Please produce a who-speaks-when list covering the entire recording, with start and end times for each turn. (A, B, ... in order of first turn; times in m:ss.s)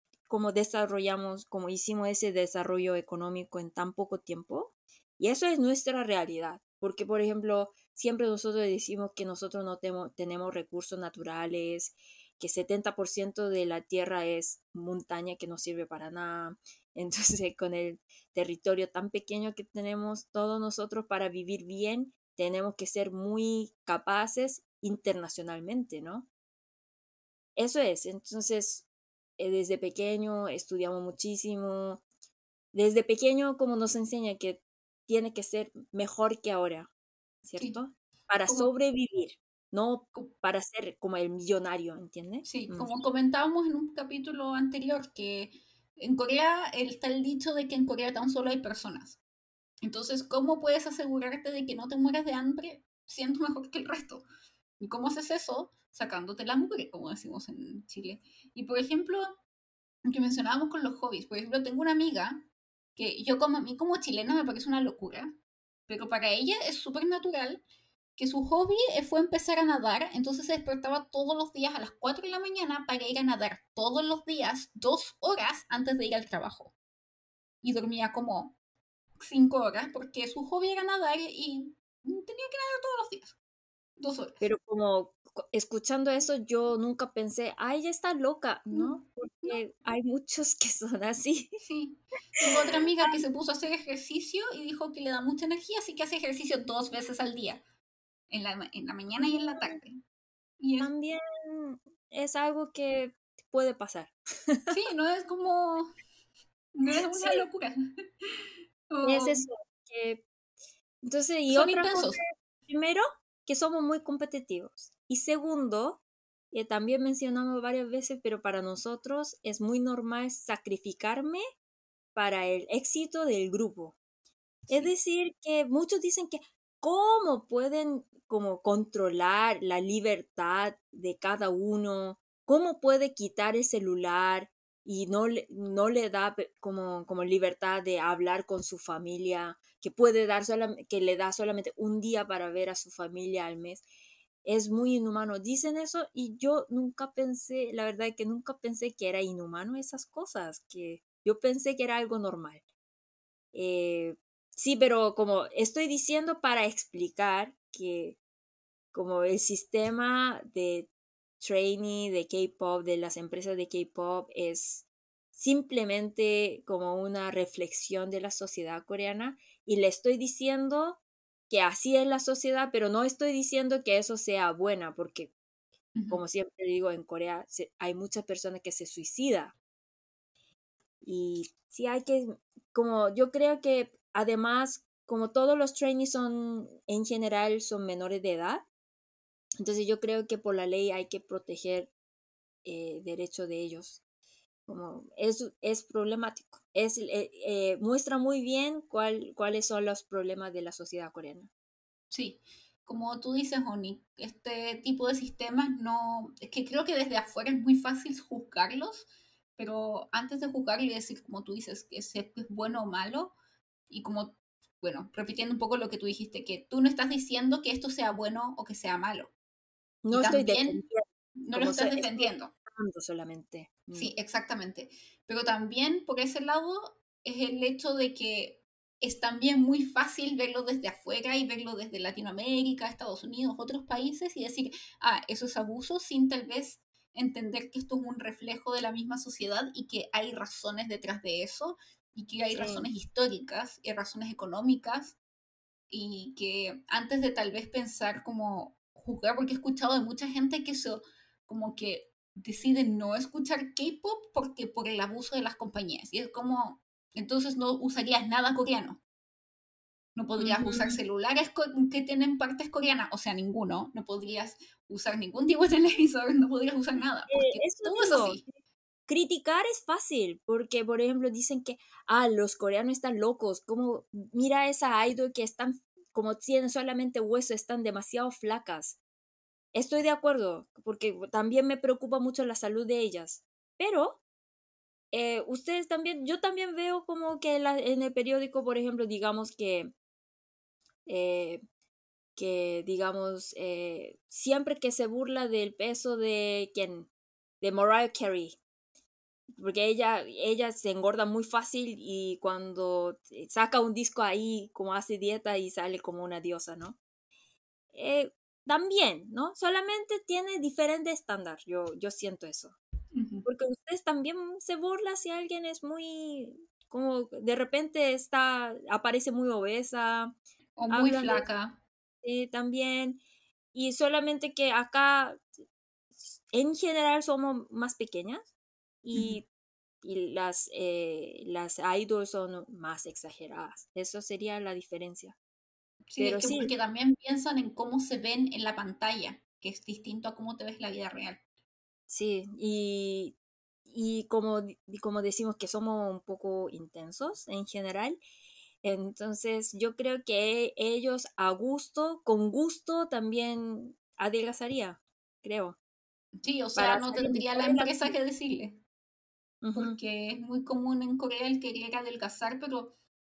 0:00.3-0:26.3 A
0:27.6-0:28.9 A
0:29.4-0:32.0 A
0:32.7-0:36.9 A
0:37.4-0:43.0 A
0:42.4-0:49.2 B
0:49.8-0:54.2 B
0:54.8-0:59.4 B
1:00.1-1:05.4 B
1:05.9-1:07.6 B
1:08.2-1:16.8 B
1:17.6-1:18.6 B
1:19.2-1:23.4 B
1:24.0-1:24.4 B
1:24.4-1:31.5 A
1:28.7-1:29.6 B
1:31.6-1:37.6 B
1:32.4-1:33.2 A
1:38.3-1:40.0 B
1:39.3-1:39.8 A
1:40.6-1:40.9 B
1:40.8-1:44.7 A
1:44.7-1:45.9 B
1:46.8-1:47.8 B
1:47.1-1:47.4 A
1:48.9-1:49.4 B
1:49.0-1:50.3 A
1:51.0-2:01.4 A
1:51.5-1:52.2 B
2:02.1-2:04.0 A
2:04.7-2:23.8 A
2:24.4-2:32.6 A
2:33.5-2:38.2 A
2:38.9-2:40.9 A
2:41.4-2:55.3 A
2:56.0-2:56.2 B
2:56.1-2:59.6 A
3:01.0-3:08.6 A
3:09.6-3:11.9 A
3:12.6-3:14.0 A
3:14.7-3:21.5 A
3:22.1-3:33.4 B
3:33.9-3:39.3 B
3:40.0-3:44.1 A
3:40.1-3:40.8 B
3:41.4-3:42.5 B
3:43.9-4:05.2 B
4:02.5-4:02.9 A
4:05.9-4:19.0 B
4:20.2-4:28.4 B
4:20.4-4:21.0 A
4:27.3-4:28.5 A
4:29.1-4:39.0 A
4:39.7-4:44.2 A
4:45.1-4:49.9 A
4:51.1-4:51.6 A
4:52.4-4:57.1 A
4:57.6-4:58.6 A
4:59.5-5:07.0 A
5:07.9-5:12.8 A
5:13.1-5:13.4 B
5:13.4-5:20.4 A
5:20.8-5:21.8 B
5:20.9-5:21.5 A
5:22.2-5:23.2 A
5:23.7-5:25.4 A
5:26.2-5:28.5 A
5:29.0-5:29.4 A
5:29.1-5:29.4 B
5:30.0-5:35.4 A
5:36.1-5:41.4 B
5:36.2-5:36.7 A
5:42.1-5:43.4 A
5:43.9-5:48.2 A
5:48.8-5:55.8 A
5:56.4-5:58.8 B
5:56.8-5:58.1 A
5:59.6-6:00.0 A
5:59.8-6:03.0 B